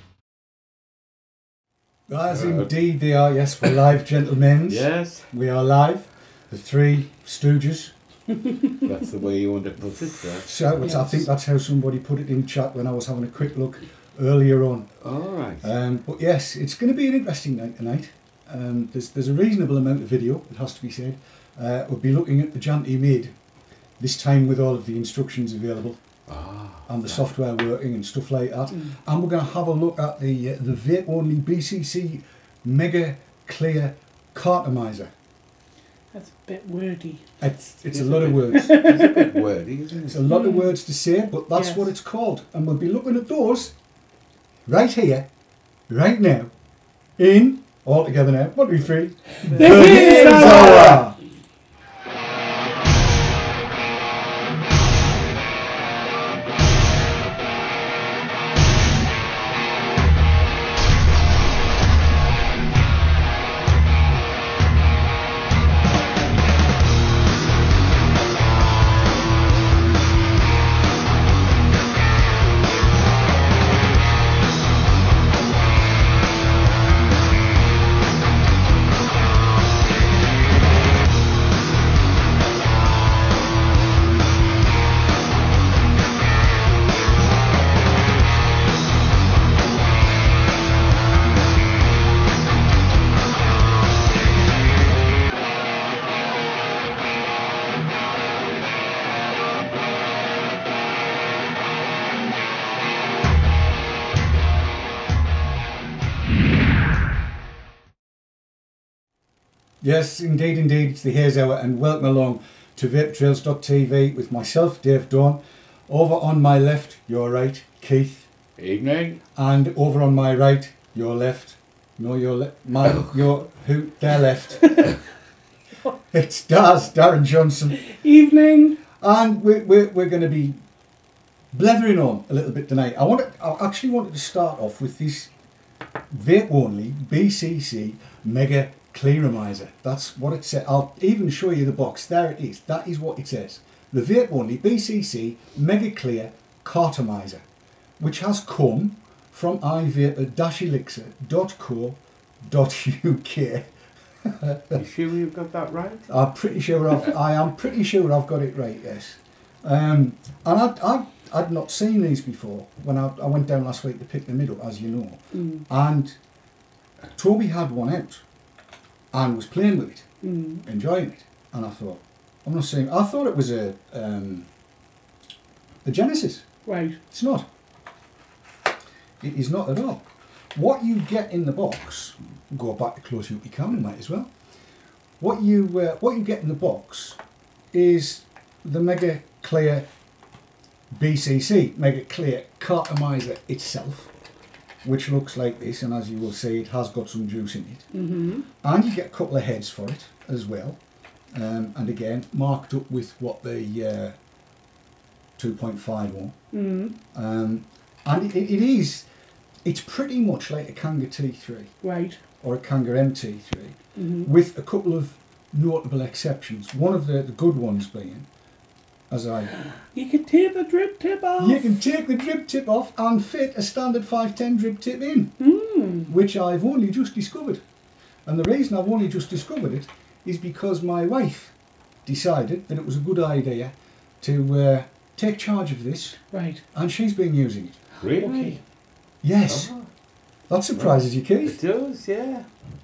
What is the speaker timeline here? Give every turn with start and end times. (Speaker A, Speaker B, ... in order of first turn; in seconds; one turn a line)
Speaker A: 2.1-7.9
Speaker B: 2.3-3.8
Speaker B: 4.7-5.3
Speaker B: 8.8-10.7
Speaker A: 10.3-14.9
Speaker C: 10.8-11.1
Speaker B: 15.0-15.7
Speaker A: 15.6-23.4
Speaker A: 24.0-26.0
Speaker B: 26.3-27.3
Speaker A: 26.9-35.1
Speaker C: 28.7-29.0
Speaker C: 36.1-37.3
Speaker A: 37.4-39.2
Speaker B: 37.9-40.2
Speaker C: 38.5-39.3
Speaker A: 40.0-43.8
Speaker C: 40.3-40.7
Speaker C: 41.5-41.9
Speaker A: 44.6-45.3
Speaker A: 45.9-46.5
Speaker A: 47.2-51.2
Speaker B: 49.4-51.1
Speaker C: 49.5-51.1
Speaker A: 109.8-118.3
Speaker B: 118.6-119.2
Speaker A: 119.3-125.0
Speaker B: 122.8-123.1
Speaker A: 126.1-127.8
Speaker C: 127.7-128.8
Speaker A: 129.0-130.6
Speaker A: 131.5-135.3
Speaker A: 136.1-147.4
Speaker A: 148.0-154.8
Speaker B: 154.7-156.1
Speaker A: 156.1-166.2
Speaker C: 165.3-165.7
Speaker A: 167.1-168.2
Speaker A: 169.1-174.5
Speaker C: 170.2-170.7
Speaker A: 175.8-176.5
Speaker C: 176.6-177.0
Speaker A: 177.1-177.5
Speaker A: 179.2-184.3
Speaker A: 185.2-187.2
Speaker A: 187.7-189.8
Speaker A: 190.9-194.1
Speaker A: 194.8-197.9
Speaker C: 197.9-198.5
Speaker A: 198.6-200.8
Speaker A: 201.3-204.2
Speaker A: 205.4-206.3
Speaker C: 206.5-206.9
Speaker A: 207.1-209.1
Speaker A: 209.6-211.8
Speaker C: 211.8-212.2
Speaker A: 212.4-218.3
Speaker C: 213.9-214.3
Speaker A: 219.1-219.5
Speaker C: 219.7-221.8
Speaker A: 221.4-225.4
Speaker C: 225.4-226.1
Speaker A: 226.1-227.6
Speaker A: 228.2-237.8
Speaker C: 236.3-236.6
Speaker B: 238.0-238.7
Speaker C: 238.2-238.6
Speaker A: 239.2-239.8
Speaker B: 239.4-239.9
Speaker A: 240.4-241.6
Speaker B: 240.7-242.5